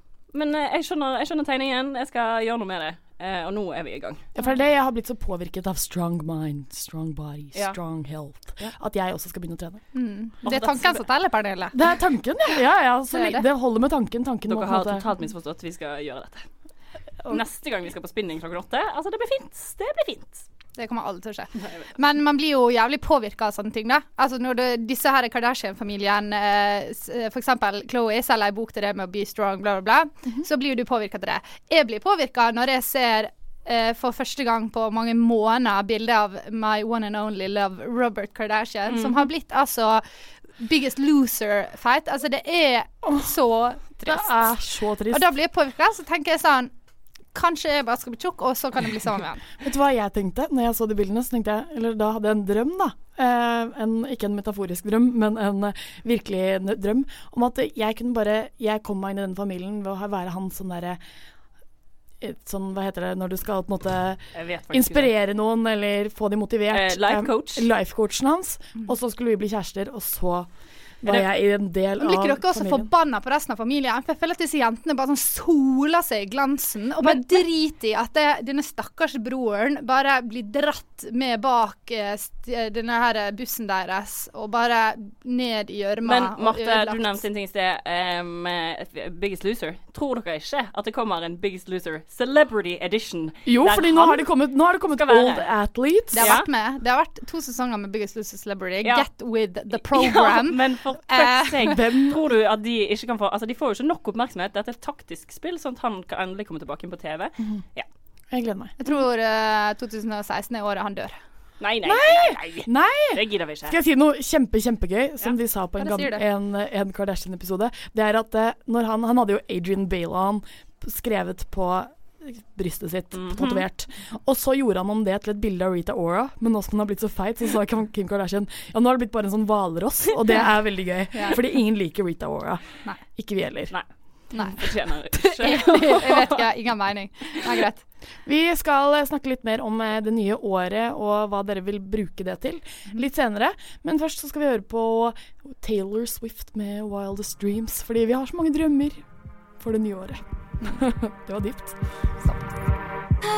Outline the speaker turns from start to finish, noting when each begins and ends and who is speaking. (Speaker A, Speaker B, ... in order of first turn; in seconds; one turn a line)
Speaker A: 0.3-4.2
Speaker B: 4.3-9.8
Speaker C: 9.9-11.7
Speaker A: 10.4-11.0
Speaker B: 11.7-15.1
Speaker C: 13.1-13.4
Speaker A: 14.5-16.4
Speaker A: 17.3-20.4
Speaker C: 20.8-40.0
Speaker A: 21.6-21.9
Speaker A: 38.9-39.2
Speaker C: 40.6-44.5
Speaker B: 44.0-45.3
Speaker C: 45.1-46.7
Speaker C: 47.3-49.4
Speaker B: 49.6-61.0
Speaker B: 62.2-70.5
Speaker A: 64.3-65.1
Speaker A: 66.7-67.7
Speaker B: 71.0-72.9
Speaker C: 72.0-87.2
Speaker A: 86.0-94.3
Speaker B: 93.5-96.3
Speaker A: 94.8-95.5
Speaker C: 96.1-101.8
Speaker A: 96.2-96.5
Speaker A: 99.8-107.9
Speaker B: 101.6-102.2
Speaker B: 108.3-108.7
Speaker C: 108.8-111.2
Speaker A: 111.6-113.8
Speaker B: 111.8-132.6
Speaker C: 115.8-116.2
Speaker A: 123.1-123.6
Speaker C: 131.1-131.4
Speaker B: 133.1-133.7
Speaker C: 134.3-134.6
Speaker A: 134.4-136.4
Speaker C: 135.2-137.8
Speaker B: 138.2-149.0
Speaker B: 149.6-151.8